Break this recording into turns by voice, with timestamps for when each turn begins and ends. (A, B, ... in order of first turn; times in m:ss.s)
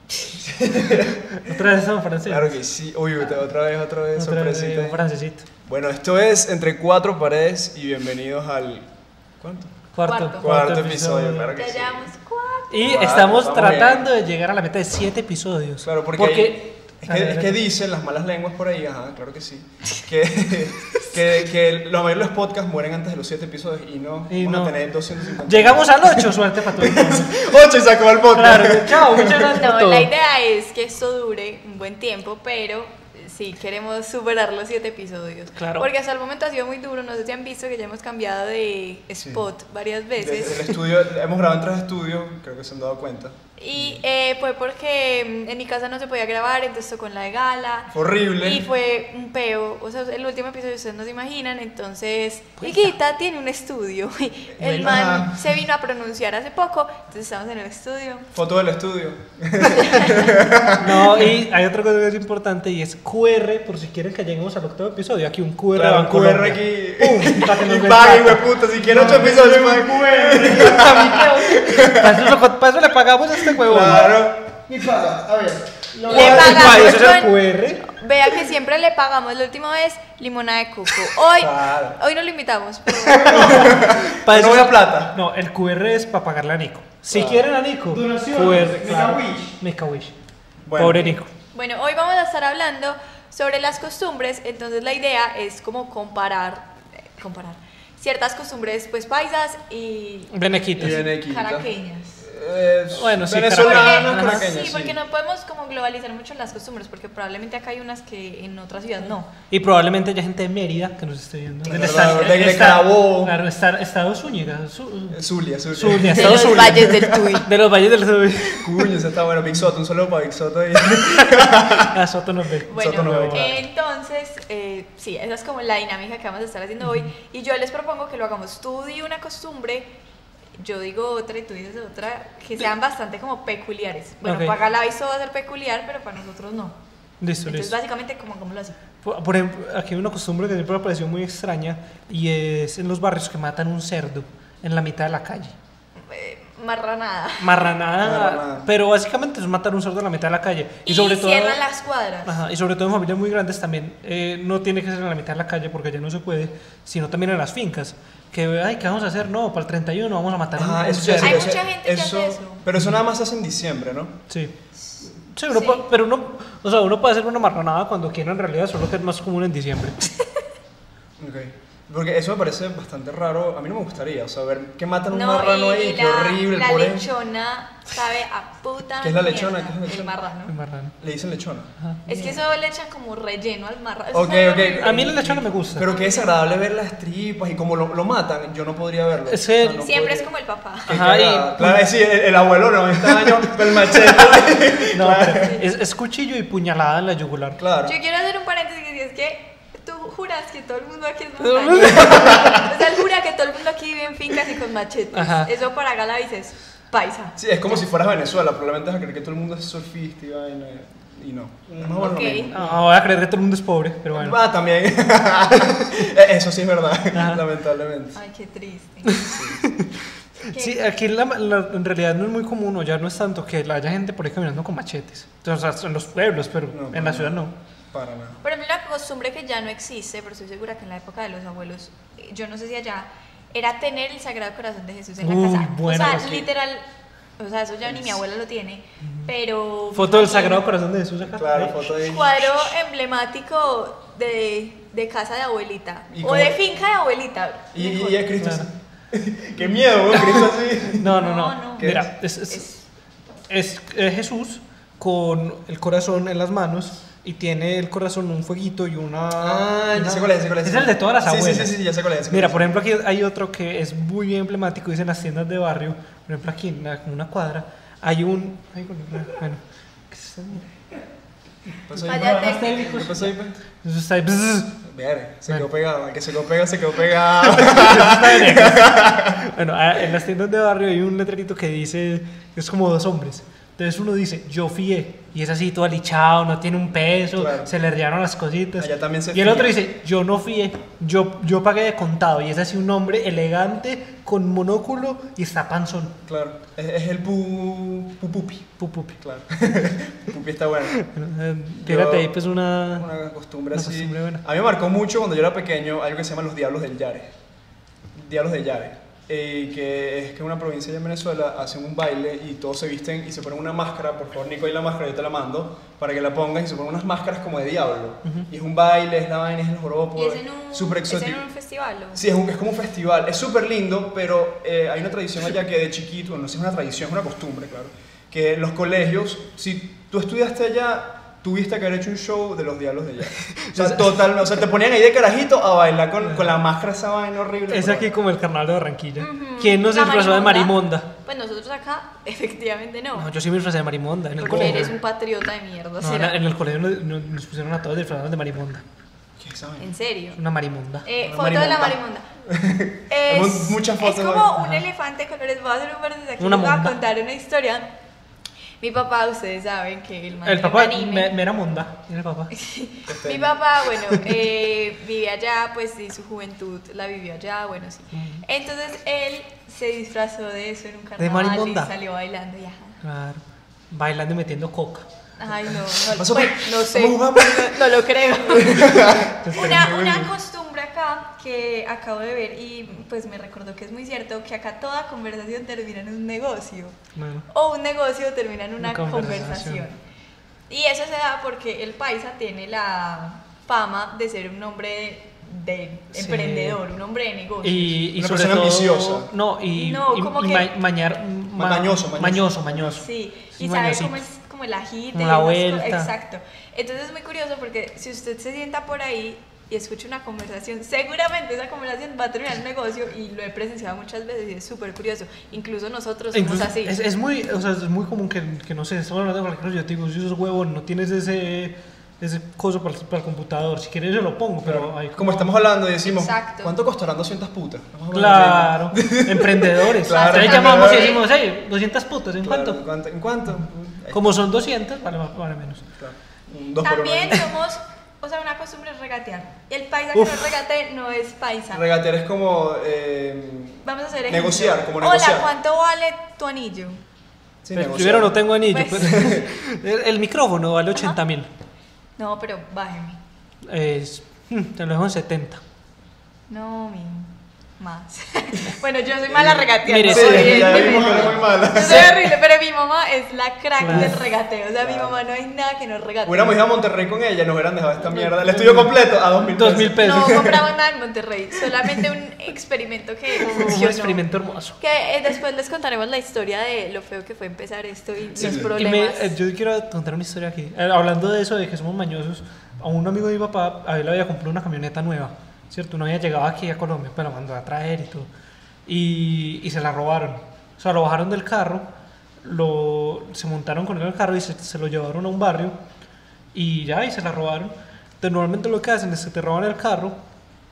0:00.1-0:01.6 A
0:01.4-0:02.5 B
0:02.2-0:05.0 A
0:04.1-0:05.5 B
0:05.7-0:09.8 A
0:09.9-0:11.5 B
0:10.0-0:10.4 C
0:10.3-0:12.1 A
0:11.5-0:12.9 C
0:12.7-0:17.6 B
0:12.8-0:14.1 A
0:15.8-0:29.6 A
0:24.3-0:24.7 B
0:25.4-0:27.4 B
0:28.3-0:30.1 B
0:29.4-0:40.7 C
0:35.6-0:35.9 B
0:40.2-0:44.0 A
0:43.6-0:58.3 C
0:47.9-0:48.6 A
0:54.6-0:55.4 A
0:58.3-1:01.3 A
0:59.8-1:00.3 C
1:00.8-1:09.2 B
1:05.7-1:12.4 A
1:08.7-1:11.6 D
1:11.7-1:14.1 B
1:13.4-1:14.4 A
1:13.8-1:16.8 D
1:16.1-1:23.9 C
1:16.1-1:17.9 B
1:16.1-1:16.6 A
1:21.3-1:22.0 A
1:23.0-1:25.2 A
1:23.2-1:30.1 B
1:27.1-1:27.5 A
1:27.9-1:29.6 D
1:30.6-1:31.2 A
1:30.8-1:31.3 B
1:31.5-1:42.2 C
1:40.3-1:41.0 B
1:40.8-1:41.7 A
1:42.2-1:45.0 A
1:42.9-1:44.4 B
1:43.6-1:49.3 C
1:49.5-1:58.9 B
1:51.6-1:53.4 A
1:55.1-1:57.4 A
1:56.1-1:57.5 C
1:58.6-2:01.9 A
2:01.2-2:03.6 B
2:02.7-2:09.9 C
2:02.7-2:03.6 A
2:06.8-2:07.1 B
2:10.6-2:16.8 C
2:14.2-2:14.6 B
2:17.2-2:17.8 B
2:17.4-2:18.8 C
2:19.0-2:25.6 B
2:26.0-2:27.7 C
2:27.4-2:31.6 B
2:28.0-2:28.7 A
2:30.9-2:32.3 C
2:32.2-2:41.5 B
2:40.6-2:44.2 A
2:41.2-2:42.7 C
2:45.0-2:50.0 B
2:45.5-2:45.8 C
2:51.2-2:57.0 A
2:55.1-3:00.5 C
2:59.0-3:00.3 A
3:00.5-3:00.9 B
3:01.0-3:01.7 A
3:01.8-3:02.3 B
3:02.1-3:05.1 C
3:04.1-3:10.3 A
3:04.8-3:05.9 B
3:05.9-3:06.3 C
3:09.3-3:09.9 B
3:09.6-3:11.0 C
3:10.9-3:11.8 B
3:10.9-3:15.6 A
3:14.9-3:17.6 B
3:15.4-3:15.6 C
3:17.6-3:18.0 A
3:17.8-3:27.4 C
3:21.4-3:22.6 B
3:22.2-3:22.6 A
3:25.1-3:25.5 B
3:27.4-3:32.7 A
3:31.7-3:32.1 D
3:32.0-3:32.5 C
3:32.5-3:34.4 B
3:34.1-3:38.2 A
3:37.1-3:37.4 B
3:38.2-3:39.3 C
3:39.0-3:47.5 B
3:39.3-3:39.6 A
3:40.5-3:40.8 C
3:46.7-3:47.4 A
3:47.9-3:48.4 A
3:48.4-3:56.8 C
3:55.2-3:56.5 B
3:57.4-4:00.6 C
3:57.9-3:58.2 A
3:59.9-4:01.8 B
4:01.2-4:02.7 A
4:01.8-4:08.2 C
4:06.1-4:06.6 A
4:07.7-4:11.2 A
4:08.4-4:08.7 B
4:10.1-4:12.7 B
4:11.2-4:12.8 C
4:11.8-4:12.1 A
4:13.5-4:30.8 B
4:19.4-4:22.8 A
4:31.8-4:33.6 A
4:31.9-4:34.8 B
4:32.0-4:33.1 C
4:34.8-4:39.4 A
4:37.4-4:56.1 B
4:47.3-4:47.7 A
4:48.8-4:49.8 A
4:56.2-5:01.0 A
4:58.8-4:59.2 B
5:00.9-5:03.1 B
5:01.8-5:07.3 A
5:03.7-5:04.4 B
5:08.1-5:21.4 A
5:20.2-5:22.2 C
5:22.1-5:38.1 A
5:33.4-5:34.2 B
5:36.2-5:36.5 B
5:37.7-5:41.1 B
5:39.2-5:43.3 C
5:43.2-5:44.9 B
5:44.4-5:46.4 C
5:44.4-5:44.9 A
5:46.0-5:48.8 B
5:49.4-5:49.9 A
5:49.8-5:50.4 C
5:50.3-5:51.1 B
5:51.0-5:52.2 C
5:51.2-5:54.6 A
5:53.1-5:57.9 C
5:56.4-5:57.0 B
5:58.8-6:01.3 C
6:00.4-6:02.5 B
6:02.5-6:13.0 C
6:03.1-6:03.6 A
6:08.1-6:08.4 B
6:11.2-6:11.9 B
6:13.0-6:15.1 B
6:15.4-6:27.0 C
6:16.1-6:17.8 A
6:18.5-6:20.3 A
6:19.4-6:19.9 B
6:27.1-6:27.4 B
6:27.5-6:30.0 C
6:28.8-6:29.8 B
6:30.7-6:38.0 C
6:36.1-6:36.8 B
6:37.6-6:44.2 B
6:38.2-6:39.3 A
6:39.7-6:40.7 C
6:41.5-6:43.0 A
6:42.9-6:56.9 C
6:45.1-6:46.1 B
6:56.3-7:05.5 B
7:04.6-7:11.2 A
7:06.0-7:06.8 C
7:08.1-7:12.8 B
7:10.0-7:11.3 C
7:12.4-7:14.4 A
7:14.1-7:15.9 B
7:16.0-7:17.5 A
7:16.8-7:21.8 C
7:20.1-7:20.5 B
7:21.7-7:25.5 A
7:23.8-7:27.0 C
7:27.6-7:28.4 A
7:27.7-7:31.5 B
7:28.7-7:29.4 C
7:29.0-7:29.4 A
7:32.2-7:33.2 C
7:33.6-7:35.6 B
7:36.5-7:46.6 C
7:39.3-7:42.3 A
7:39.8-7:41.0 B
7:40.7-7:41.4 D
7:41.7-7:42.1 B
7:43.8-7:44.2 B
7:43.9-7:44.2 A
7:44.8-7:45.2 A
7:46.2-7:50.6 A
7:48.1-7:49.0 B
7:49.5-7:50.4 B
7:50.0-7:54.2 C
7:53.4-7:54.8 B
7:54.8-7:59.3 C
7:58.3-7:58.8 A
7:58.4-8:08.3 B
8:08.8-8:11.8 B
8:12.4-8:15.8 B
8:16.5-8:20.2 B